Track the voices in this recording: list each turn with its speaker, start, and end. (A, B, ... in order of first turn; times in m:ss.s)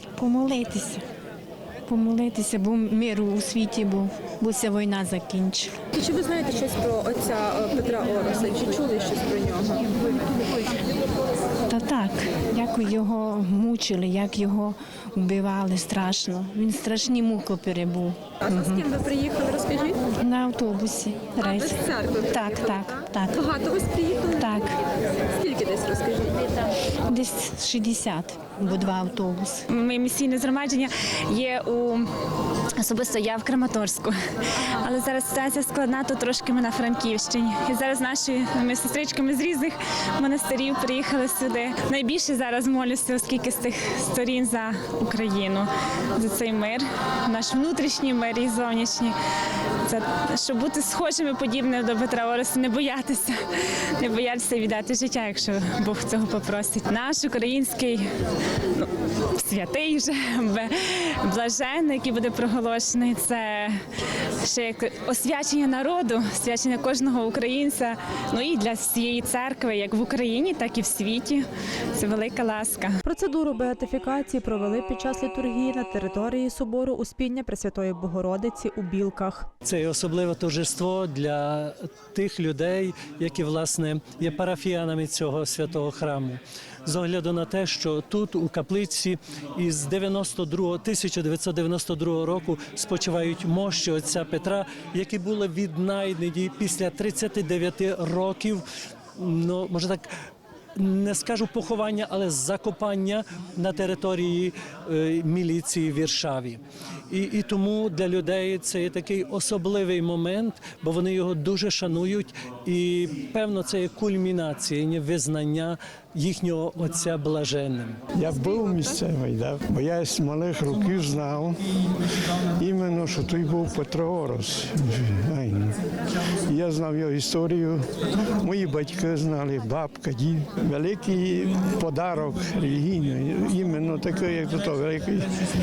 0:00.2-0:01.0 A
0:01.9-0:05.8 A
0:06.1-0:09.6 B
0:11.7-0:19.0 A
0:19.2-0:19.7 B
0:20.0-0:23.4 A
0:24.0-0:24.7 A
0:25.5-0:26.2 B
0:27.1-0:29.6 A
0:29.7-0:32.1 C
0:32.8-0:58.1 C
0:58.6-1:03.8 C
1:04.4-1:13.0 C
1:13.0-1:19.5 D
1:19.6-1:38.6 E
1:39.2-1:40.0 E
1:40.8-1:58.0 E
1:58.2-2:01.6 F
2:02.6-2:05.8 F
2:06.5-2:15.3 F